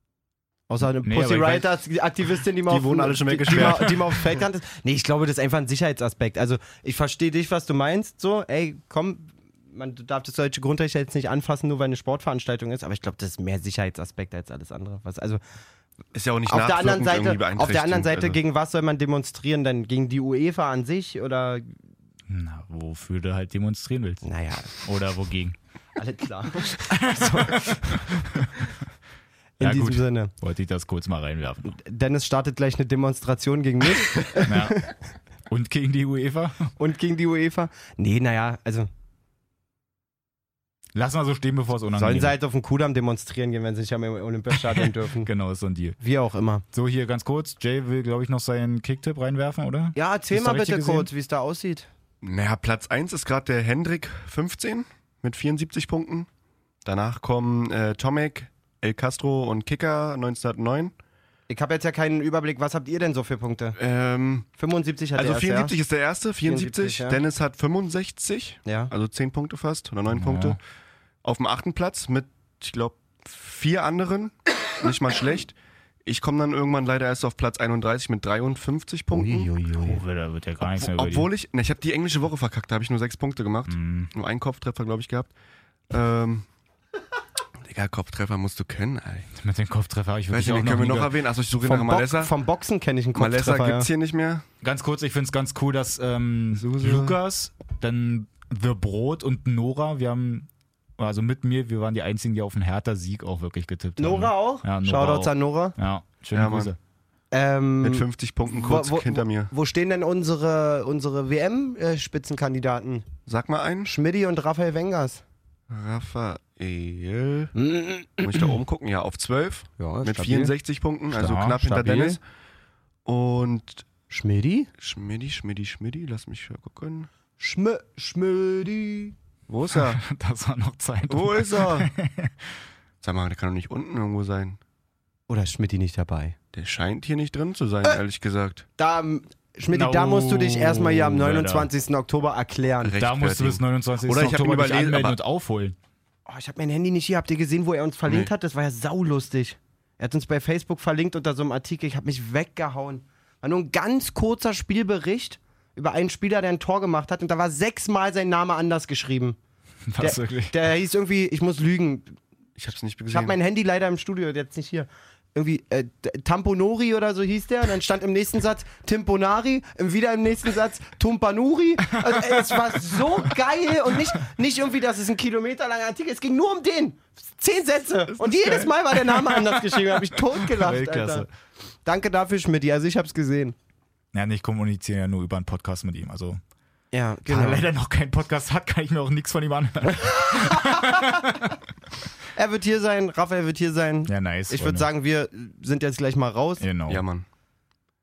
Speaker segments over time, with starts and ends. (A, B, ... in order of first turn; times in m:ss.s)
0:00.7-0:15.4 A
0:01.0-0:01.8 B
0:02.7-0:04.2 C
0:03.5-0:04.0 B
0:16.1-0:18.4 C
0:16.5-0:21.7 A
0:22.3-0:25.6 B
0:24.2-0:24.7 A
0:26.0-0:28.2 A
0:26.7-0:28.7 B
0:29.6-0:30.3 A
0:29.6-0:31.8 B
0:31.7-0:34.8 A
0:34.4-0:34.9 B
0:35.5-0:36.7 B
0:36.8-0:38.9 A
0:40.9-0:42.4 B
0:42.0-0:45.3 A
0:44.5-0:46.0 B
0:46.0-0:46.6 A
0:46.7-0:51.1 B
0:49.9-0:51.9 A
0:52.2-0:56.3 C
0:56.8-1:00.9 C
1:01.5-1:03.8 A
1:03.8-1:04.5 C
1:04.6-1:05.8 A
1:05.1-1:10.6 C
1:06.4-1:07.2 A
1:08.6-1:08.9 A
1:10.1-1:10.6 B
1:11.2-1:19.5 C
1:19.2-1:20.0 A
1:19.7-1:21.3 B
1:20.6-1:25.3 C
1:23.7-1:24.1 B
1:25.9-1:26.4 C
1:27.6-1:29.3 C
1:29.4-1:31.1 B
1:30.3-1:32.3 C
1:31.6-1:33.9 A
1:33.1-1:34.4 C
1:34.6-1:40.5 B
1:36.5-1:37.2 C
1:41.0-1:46.8 B
1:44.0-1:45.8 A
1:46.3-1:46.7 C
1:47.3-1:53.0 A
1:47.8-1:49.5 C
1:53.3-1:53.9 C
1:53.8-1:55.2 A
1:55.7-1:57.5 C
1:57.5-1:58.6 A
1:58.2-2:02.2 C
1:59.8-2:00.6 A
2:01.1-2:01.7 B
2:01.6-2:02.2 A
2:03.0-2:03.8 C
2:04.1-2:04.7 A
2:04.8-2:07.1 C
2:07.4-2:09.1 A
2:09.5-2:10.0 C
2:09.9-2:12.3 B
2:11.1-2:11.9 C
2:13.0-2:14.6 C
2:15.3-2:16.4 A
2:16.5-2:18.6 C
2:18.8-2:23.0 A
2:19.7-2:21.7 B
2:22.8-2:25.2 C
2:23.0-2:25.8 B
2:26.2-2:39.4 A
2:39.9-2:40.5 B
2:40.0-2:42.2 A
2:42.6-2:43.4 C
2:43.1-3:01.3 A
2:52.1-2:52.8 B
2:58.2-2:59.8 B
3:00.7-3:01.1 B
3:00.7-3:01.2 C
3:01.8-3:03.5 A
3:04.1-3:06.4 B
3:06.9-3:07.7 A
3:07.3-3:11.5 B
3:09.9-3:11.2 A
3:12.3-3:16.6 A
3:14.1-3:14.9 B
3:16.6-3:17.0 B
3:16.9-3:17.2 C